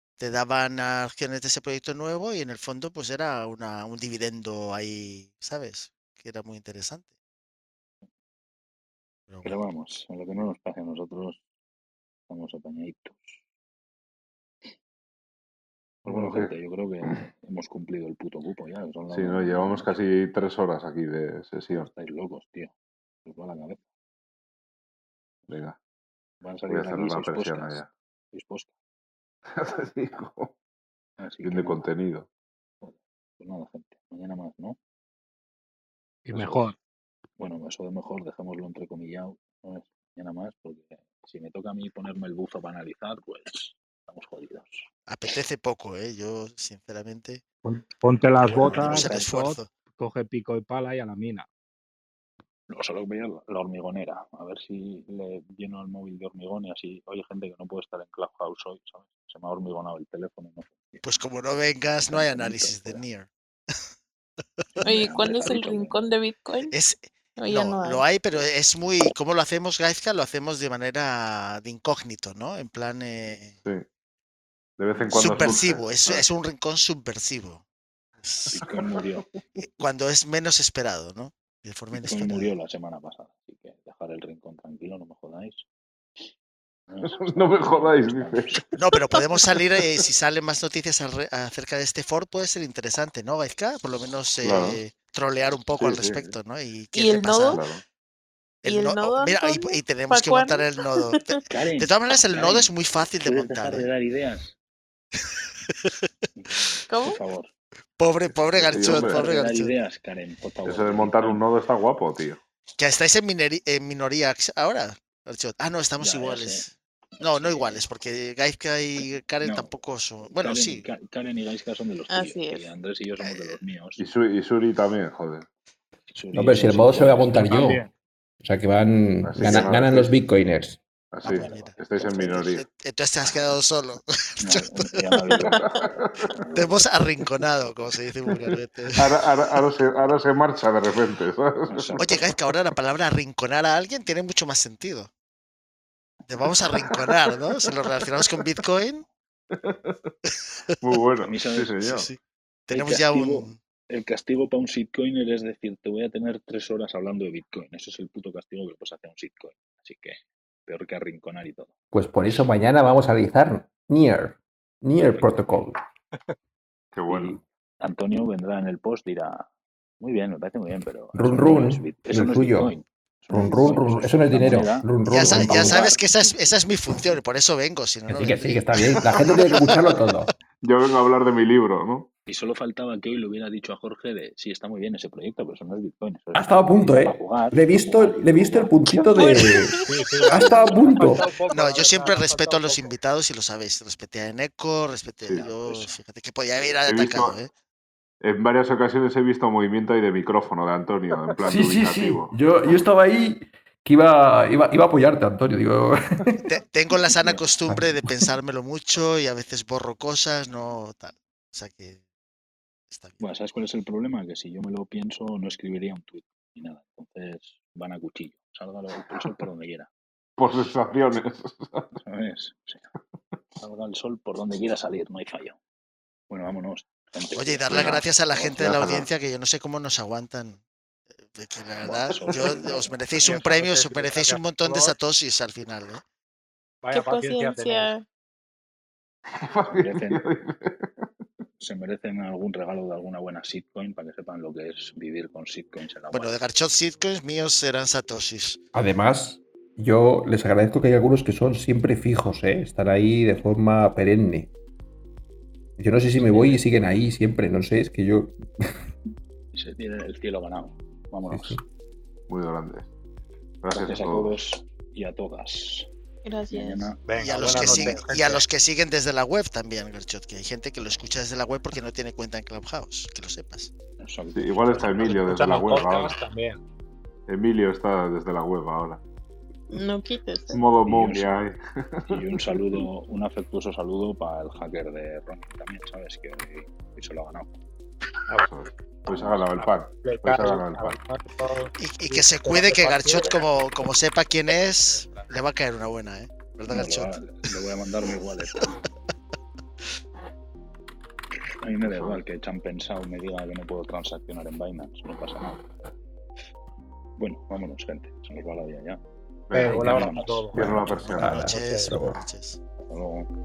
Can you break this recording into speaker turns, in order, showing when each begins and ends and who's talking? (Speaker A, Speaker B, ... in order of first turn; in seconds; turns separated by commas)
Speaker A: 0.2-7.1, Speaker A: 9.3-9.6, Speaker B: 9.4-11.4, Speaker B: 12.3-13.4, Speaker B: 16.0-19.9, Speaker C: 16.1-16.5, Speaker C: 19.1-21.9, Speaker B: 21.8-22.7, Speaker B: 23.2-23.8, Speaker C: 25.5-25.8, Speaker B: 26.4-27.8, Speaker C: 26.7-27.9, Speaker B: 28.3-28.7, Speaker C: 29.5-30.5, Speaker B: 31.2-31.9, Speaker C: 31.4-32.3, Speaker B: 32.8-34.8, Speaker D: 36.2-36.8, Speaker B: 36.3-36.7, Speaker B: 37.4-44.9, Speaker A: 45.1-47.4, Speaker D: 47.6-51.5, Speaker A: 48.4-49.7, Speaker B: 48.6-49.2, Speaker B: 52.7-61.0, Speaker A: 61.0-63.3, Speaker B: 62.1-63.0, Speaker B: 64.7-66.0, Speaker E: 64.8-66.7, Speaker A: 64.9-65.5, Speaker A: 66.7-73.6, Speaker E: 67.4-68.0, Speaker C: 74.8-76.2, Speaker B: 75.0-75.5, Speaker A: 75.1-77.6, Speaker A: 78.2-78.5, Speaker B: 78.5-79.2, Speaker A: 79.6-82.5, Speaker B: 82.0-85.6, Speaker B: 86.9-88.6, Speaker C: 87.0-88.6, Speaker A: 88.7-97.6, Speaker C: 94.4-94.8, Speaker C: 95.8-96.3, Speaker E: 96.9-97.6, Speaker C: 97.5-97.8, Speaker A: 98.6-103.9, Speaker E: 98.6-101.2, Speaker B: 101.5-104.5, Speaker B: 106.3-107.5, Speaker E: 106.9-107.2, Speaker A: 108.0-109.7, Speaker C: 108.5-109.3, Speaker B: 108.7-111.4, Speaker C: 110.6-112.4, Speaker A: 112.7-120.9, Speaker B: 116.0-116.7, Speaker B: 117.2-117.8, Speaker B: 119.4-119.7, Speaker B: 120.3-124.0, Speaker E: 122.1-122.7, Speaker A: 123.2-123.5, Speaker C: 124.0-125.5, Speaker B: 126.1-127.7, Speaker F: 126.3-127.8, Speaker D: 127.5-127.9, Speaker F: 128.4-130.8, Speaker C: 129.2-130.2, Speaker C: 131.1-132.6, Speaker B: 131.2-132.3, Speaker A: 131.3-134.7, Speaker B: 134.4-136.8, Speaker C: 135.5-136.3, Speaker A: 136.5-139.1, Speaker C: 138.5-142.1, Speaker B: 141.7-142.3, Speaker A: 142.0-145.1, Speaker A: 146.3-149.1, Speaker C: 146.9-147.2, Speaker C: 149.6-150.1, Speaker C: 150.8-152.1, Speaker B: 151.2-152.0, Speaker A: 151.8-152.2, Speaker A: 152.7-153.6, Speaker B: 152.7-161.7, Speaker F: 161.9-165.8, Speaker C: 166.9-167.4, Speaker B: 167.1-169.5, Speaker B: 170.0-176.3, Speaker F: 171.1-172.7, Speaker F: 173.3-175.8, Speaker A: 175.1-180.0, Speaker F: 178.1-180.3, Speaker C: 180.6-182.1, Speaker B: 182.3-188.9, Speaker F: 186.3-189.8, Speaker E: 189.2-189.7, Speaker D: 189.7-192.9, Speaker F: 190.3-191.3, Speaker B: 190.8-191.1, Speaker A: 191.5-197.5, Speaker C: 195.2-195.5, Speaker C: 196.8-197.4, Speaker C: 198.2-202.3, Speaker F: 201.4-206.4, Speaker A: 206.4-212.0, Speaker F: 207.7-208.2, Speaker A: 212.9-213.2, Speaker B: 213.2-219.9, Speaker C: 220.4-222.0, Speaker B: 222.0-222.9, Speaker B: 223.6-225.6, Speaker B: 226.3-228.9, Speaker A: 227.3-230.6, Speaker C: 227.7-229.1, Speaker A: 231.2-236.0, Speaker B: 231.8-233.5, Speaker D: 233.2-235.0, Speaker D: 236.8-237.9, Speaker E: 236.9-238.0, Speaker C: 239.4-241.1, Speaker B: 239.7-240.2, Speaker B: 241.6-246.4, Speaker A: 246.1-248.6, Speaker F: 248.7-254.5, Speaker F: 255.8-258.7, Speaker B: 256.2-256.6, Speaker B: 259.5-261.6, Speaker F: 261.3-261.6, Speaker C: 262.3-262.9, Speaker C: 263.6-264.4, Speaker B: 263.7-265.9, Speaker E: 266.2-266.9, Speaker B: 266.5-268.0, Speaker D: 267.0-268.4, Speaker A: 267.2-273.7, Speaker B: 274.0-275.3, Speaker C: 274.3-276.2, Speaker D: 275.0-276.6, Speaker C: 277.3-279.0, Speaker E: 279.7-280.6, Speaker C: 280.5-282.6, Speaker B: 280.8-281.3, Speaker B: 282.1-287.5, Speaker C: 288.4-291.0, Speaker D: 289.1-293.5, Speaker A: 291.8-297.1, Speaker D: 295.0-295.2, Speaker B: 296.7-298.7, Speaker B: 301.6-305.6, Speaker C: 301.8-302.2, Speaker B: 307.2-309.0, Speaker C: 309.5-311.5, Speaker D: 309.5-312.1, Speaker F: 309.6-309.9, Speaker B: 309.7-311.4, Speaker F: 311.1-312.2, Speaker A: 311.2-312.6, Speaker B: 312.9-313.3